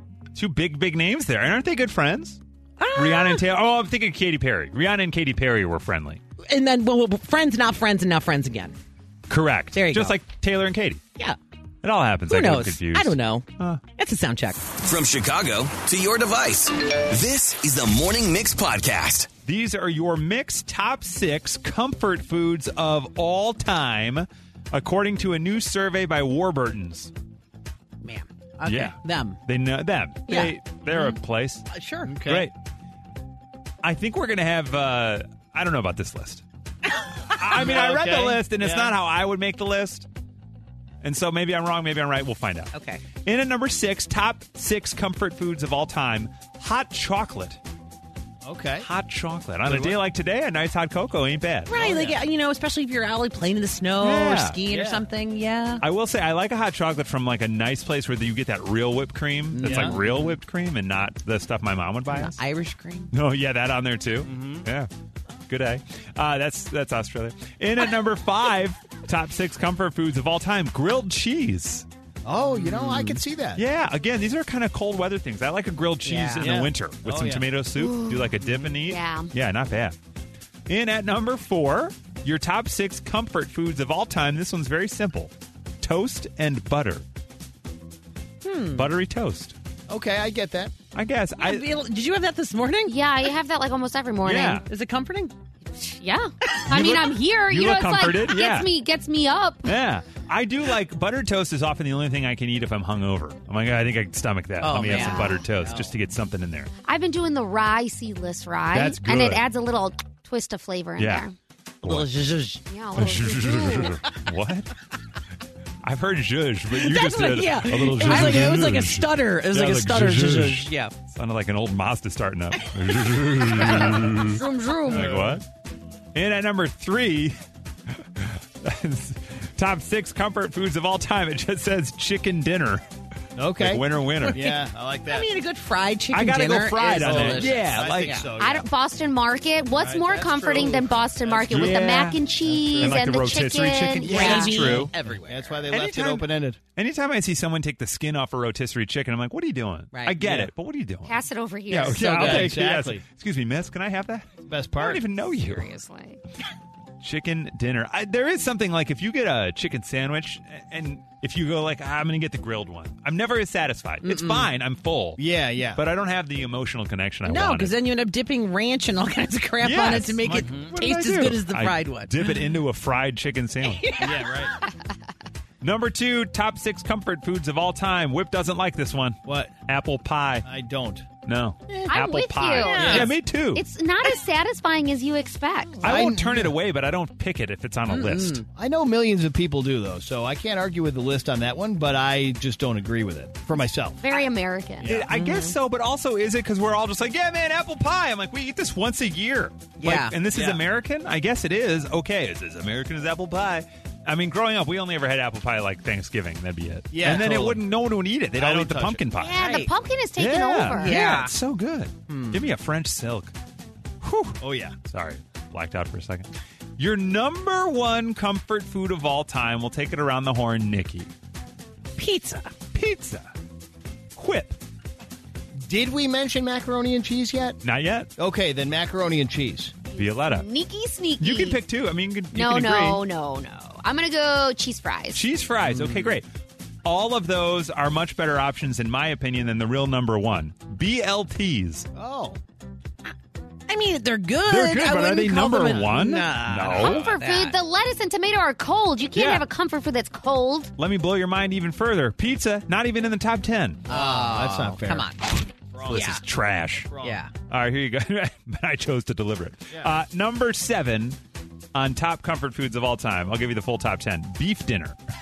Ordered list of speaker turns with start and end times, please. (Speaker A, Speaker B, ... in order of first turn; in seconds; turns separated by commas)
Speaker A: 0.3-2.4, Speaker B: 2.8-3.4, Speaker A: 2.9-6.2, Speaker B: 6.4-8.8, Speaker A: 9.3-11.0, Speaker B: 9.7-10.2, Speaker A: 11.8-13.8, Speaker B: 12.3-14.7, Speaker C: 14.8-19.3, Speaker A: 19.4-27.1, Speaker B: 28.0-29.4, Speaker A: 28.6-31.7, Speaker B: 30.3-31.2, Speaker B: 31.7-32.1, Speaker D: 32.0-32.5, Speaker A: 32.2-32.5, Speaker A: 33.8-36.4, Speaker A: 37.3-40.1, Speaker D: 37.5-38.9, Speaker A: 41.0-42.7, Speaker B: 42.7-43.0, Speaker A: 43.2-47.6, Speaker D: 48.4-48.9, Speaker A: 48.8-51.7, Speaker D: 49.6-50.0, Speaker B: 51.7-55.8, Speaker D: 51.7-52.2, Speaker A: 54.0-54.6, Speaker D: 54.7-55.0, Speaker A: 55.8-62.4, Speaker B: 59.5-60.3, Speaker D: 59.6-60.0, Speaker B: 62.1-63.1, Speaker A: 63.1-64.9, Speaker D: 64.2-64.7, Speaker A: 65.5-71.8, Speaker D: 72.2-73.6, Speaker B: 72.6-73.2, Speaker A: 73.5-80.0, Speaker B: 76.0-76.7, Speaker D: 76.4-77.5, Speaker E: 77.8-79.3, Speaker A: 80.7-87.0, Speaker B: 88.4-88.9, Speaker A: 88.7-89.5, Speaker D: 89.9-90.7, Speaker A: 90.9-91.7, Speaker B: 91.4-93.0, Speaker E: 92.9-94.6, Speaker A: 94.2-94.6, Speaker B: 94.7-95.3, Speaker E: 95.7-99.8, Speaker A: 96.7-98.7, Speaker A: 99.7-106.7, Speaker B: 104.6-105.9, Speaker E: 104.8-105.4, Speaker E: 106.8-111.3, Speaker A: 108.7-109.4, Speaker A: 111.0-111.3, Speaker A: 111.8-112.1, Speaker B: 111.8-112.6, Speaker E: 112.7-114.0, Speaker A: 113.0-114.7, Speaker A: 115.8-125.4, Speaker B: 116.7-120.9, Speaker D: 118.1-118.6, Speaker E: 123.6-125.1, Speaker D: 124.9-125.4, Speaker A: 126.1-127.3, Speaker A: 128.0-132.8, Speaker D: 133.4-135.3, Speaker A: 133.6-134.4, Speaker B: 134.2-134.6, Speaker B: 135.1-138.3, Speaker A: 136.1-138.2, Speaker D: 136.8-138.7, Speaker E: 138.4-144.5, Speaker D: 139.8-143.0, Speaker A: 141.5-142.2, Speaker A: 142.7-144.9, Speaker B: 144.0-145.6, Speaker D: 144.2-146.6, Speaker A: 145.7-151.1, Speaker D: 150.2-150.5, Speaker E: 151.0-152.3, Speaker A: 151.7-155.7, Speaker D: 151.9-153.0, Speaker B: 152.2-152.5, Speaker D: 154.5-155.0, Speaker E: 155.2-156.2, Speaker A: 157.0-167.7, Speaker B: 164.0-164.5, Speaker D: 165.2-165.8, Speaker B: 167.2-172.2, Speaker A: 169.6-173.9, Speaker D: 170.2-170.8, Speaker B: 173.6-174.5, Speaker D: 174.0-174.5, Speaker A: 175.6-180.4, Speaker D: 179.2-179.5, Speaker D: 180.4-181.0, Speaker A: 181.2-183.6, Speaker E: 181.8-185.9, Speaker B: 182.6-183.1, Speaker D: 182.7-183.1, Speaker D: 185.8-186.6, Speaker A: 185.8-188.4, Speaker B: 187.9-188.4, Speaker D: 188.5-194.0, Speaker E: 194.0-194.9, Speaker D: 194.8-195.1, Speaker A: 194.8-209.4, Speaker B: 195.1-195.6, Speaker B: 199.8-200.1, Speaker D: 200.3-200.6, Speaker D: 206.9-207.6, Speaker D: 208.3-209.0, Speaker E: 209.2-211.0, Speaker B: 209.3-209.7, Speaker A: 210.2-213.3, Speaker B: 210.8-211.3, Speaker B: 212.1-212.5, Speaker A: 214.0-221.1, Speaker D: 214.4-214.8, Speaker B: 222.0-222.5, Speaker A: 222.7-223.3, Speaker A: 224.2-224.6, Speaker D: 225.6-227.6, Speaker A: 227.6-228.1, Speaker D: 228.2-229.7, Speaker E: 229.9-231.6, Speaker A: 230.0-230.4, Speaker A: 231.2-233.0, Speaker E: 232.3-235.2, Speaker A: 235.1-236.2, Speaker B: 235.8-236.1, Speaker A: 236.8-241.9, Speaker D: 241.9-242.4, Speaker B: 243.7-247.6, Speaker A: 244.5-247.0, Speaker D: 246.3-246.9, Speaker E: 246.8-250.7, Speaker A: 249.1-249.4, Speaker A: 250.8-253.8, Speaker D: 253.9-255.1, Speaker B: 253.9-256.2, Speaker D: 255.7-256.2, Speaker A: 255.8-256.9, Speaker D: 256.8-257.2, Speaker B: 257.0-257.3, Speaker A: 257.5-261.2, Speaker A: 261.7-265.0